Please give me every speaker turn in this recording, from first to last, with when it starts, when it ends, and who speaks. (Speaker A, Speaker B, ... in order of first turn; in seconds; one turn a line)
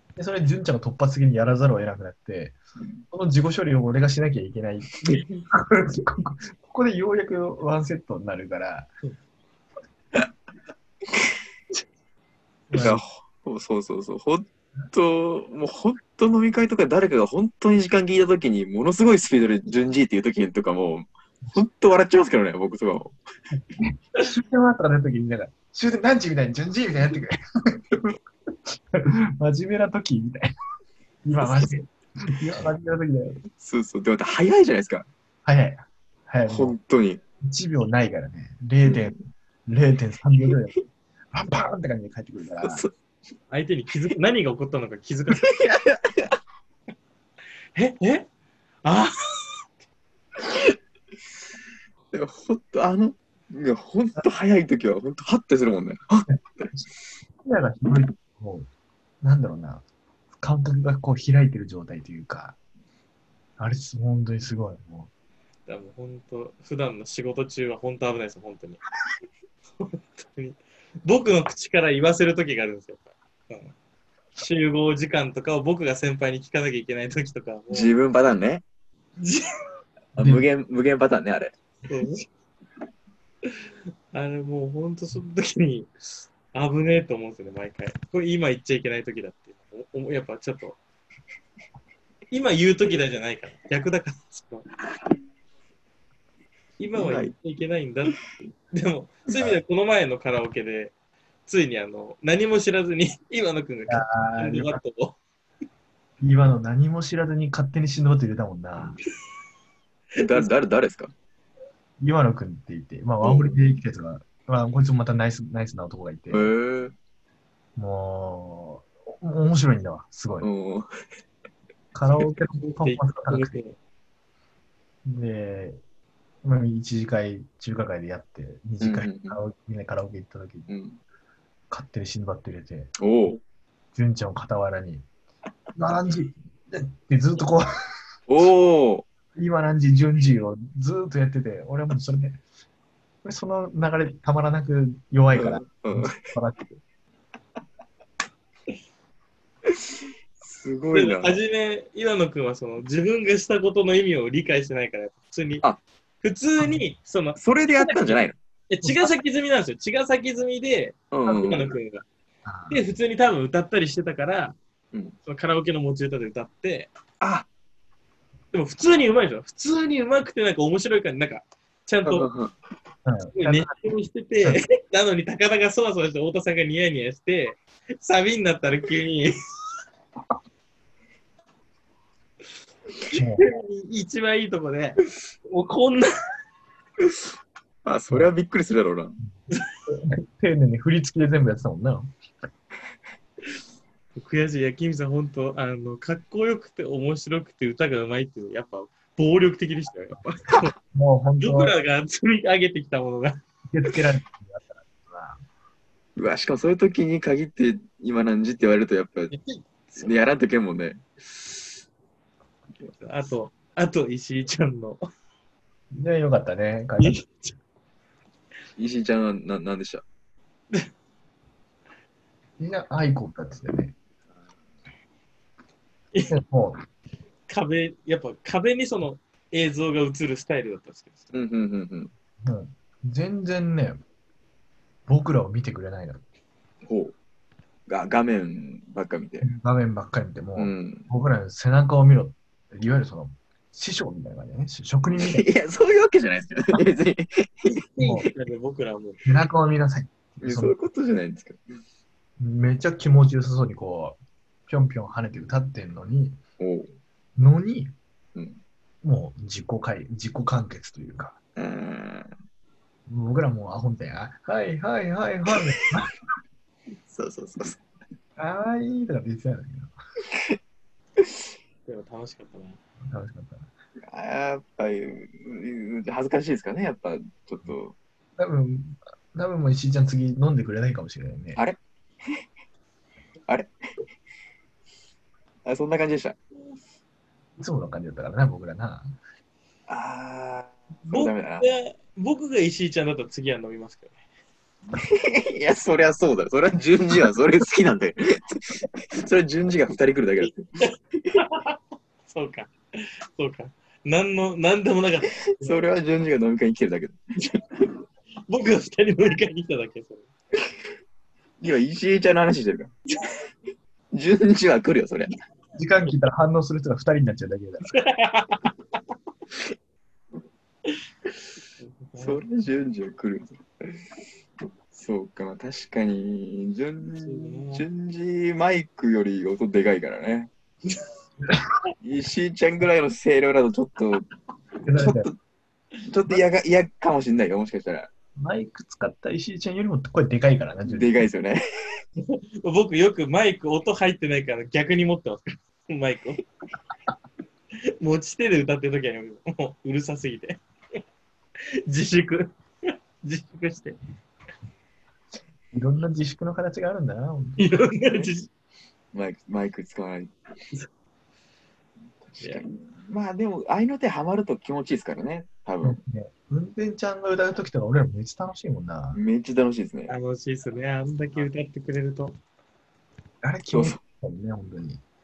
Speaker A: 0.2-2.6
Speaker A: 3.1-8.9
Speaker A: 12.7-13.0
Speaker B: 12.8-23.2
Speaker A: 23.8-28.2
Speaker A: 28.7-30.5
Speaker A: 31.2-33.4
Speaker B: 33.6-35.1
Speaker A: 35.5-36.8
Speaker B: 36.5-37.2
Speaker A: 37.4-40.8
Speaker B: 38.8-39.1
Speaker A: 41.3-42.9
Speaker B: 42.6-42.9
Speaker C: 43.5-45.5
Speaker B: 45.4-46.4
Speaker C: 47.7-48.3
Speaker C: 48.8-49.7
Speaker B: 52.1-56.7
Speaker A: 57.4-58.7
Speaker A: 59.2-59.8
Speaker A: 60.4-62.6
Speaker A: 63.6-65.1
Speaker C: 65.7-68.8
Speaker C: 69.8-73.7
Speaker C: 74.4-78.0
Speaker B: 77.7-78.6
Speaker C: 79.2-79.5
Speaker B: 80.2-81.5
Speaker A: 80.2-80.5
Speaker C: 81.9-82.3
Speaker C: 84.1-85.9
Speaker C: 86.5-90.8
Speaker C: 92.3-94.7
Speaker C: 96.8-98.2
Speaker B: 97.0-97.3
Speaker C: 98.7-100.9
Speaker C: 101.5-105.2
Speaker A: 103.9-104.8
Speaker A: 106.2-109.0
Speaker B: 110.2-111.1
Speaker C: 110.2-110.5
Speaker A: 112.0-116.5
Speaker B: 113.2-113.6
Speaker B: 116.3-117.0
Speaker A: 117.8-120.5
Speaker B: 120.4-120.9
Speaker A: 121.9-123.6
Speaker C: 122.6-123.8
Speaker A: 125.0-125.8
Speaker A: 126.4-130.7
Speaker B: 128.8-129.4
Speaker B: 130.7-131.0
Speaker A: 131.7-132.9
Speaker B: 133.0-133.4
Speaker A: 133.9-135.1
Speaker A: 135.8-137.7
Speaker B: 138.3-139.1
Speaker A: 139.3-142.4
Speaker A: 143.2-146.8
Speaker B: 145.3-146.2
Speaker B: 150.4-151.4
Speaker C: 150.9-155.7
Speaker C: 156.2-162.1
Speaker B: 157.4-158.4
Speaker B: 161.1-161.7
Speaker A: 162.4-162.8
Speaker C: 162.7-164.6
Speaker C: 165.3-166.9
Speaker B: 167.2-167.5
Speaker C: 168.5-172.3
Speaker B: 172.1-172.5
Speaker A: 173.1-173.9
Speaker C: 173.3-179.4
Speaker A: 183.1-183.4
Speaker C: 183.1-186.1
Speaker B: 187.8-189.2
Speaker A: 189.9-192.1
Speaker C: 194.2-200.7
Speaker A: 200.9-201.7
Speaker C: 201.4-203.4
Speaker A: 203.7-205.4
Speaker B: 206.2-209.3
Speaker C: 209.3-210.1
Speaker B: 210.0-211.0
Speaker C: 213.0-215.0
Speaker A: 215.9-217.2
Speaker C: 217.0-217.6
Speaker B: 218.8-220.0
Speaker A: 222.6-223.9
Speaker A: 226.3-226.8
Speaker C: 227.5-231.3
Speaker B: 231.3-232.1
Speaker A: 232.4-234.0
Speaker A: 235.1-236.2
Speaker B: 236.9-237.1
Speaker B: 237.9-239.5
Speaker A: 239.4-245.4
Speaker B: 240.6-241.1
Speaker B: 245.1-247.7
Speaker C: 247.7-249.2
Speaker A: 248.0-248.3
Speaker A: 249.2-250.7
Speaker B: 250.4-251.6
Speaker A: 252.4-254.2
Speaker A: 254.7-256.4
Speaker B: 256.6-256.9
Speaker A: 257.4-257.9
Speaker A: 259.0-261.4
Speaker B: 261.6-262.3
Speaker A: 263.1-266.1
Speaker B: 267.1-267.8
Speaker A: 268.4-269.9
Speaker C: 271.9-272.8
Speaker A: 273.0-273.7
Speaker B: 274.0-277.9
Speaker A: 278.4-281.6
Speaker B: 285.7-286.4
Speaker A: 287.6-289.2
Speaker B: 289.9-291.7
Speaker C: 291.1-294.2
Speaker B: 294.9-300.7
Speaker C: 300.8-301.8
Speaker C: 302.3-305.8
Speaker B: 305.6-307.2
Speaker C: 308.5-310.3
Speaker B: 311.6-312.9
Speaker B: 314.1-315.3
Speaker A: 315.8-317.9
Speaker C: 317.9-318.7
Speaker C: 321.8-322.4
Speaker B: 322.2-324.0
Speaker B: 324.9-330.5
Speaker C: 327.1-327.9
Speaker B: 332.0-334.3
Speaker A: 334.8-335.3
Speaker B: 334.8-335.4
Speaker B: 336.0-338.1
Speaker A: 338.4-341.1
Speaker B: 340.9-342.0
Speaker C: 342.2-346.4
Speaker C: 348.0-350.6
Speaker C: 351.9-353.9
Speaker A: 355.7-358.3
Speaker C: 357.6-358.5
Speaker B: 359.1-360.3
Speaker B: 362.3-366.0
Speaker A: 365.8-369.2
Speaker B: 369.1-370.2
Speaker C: 370.1-372.4
Speaker A: 373.4-375.0
Speaker B: 373.7-374.0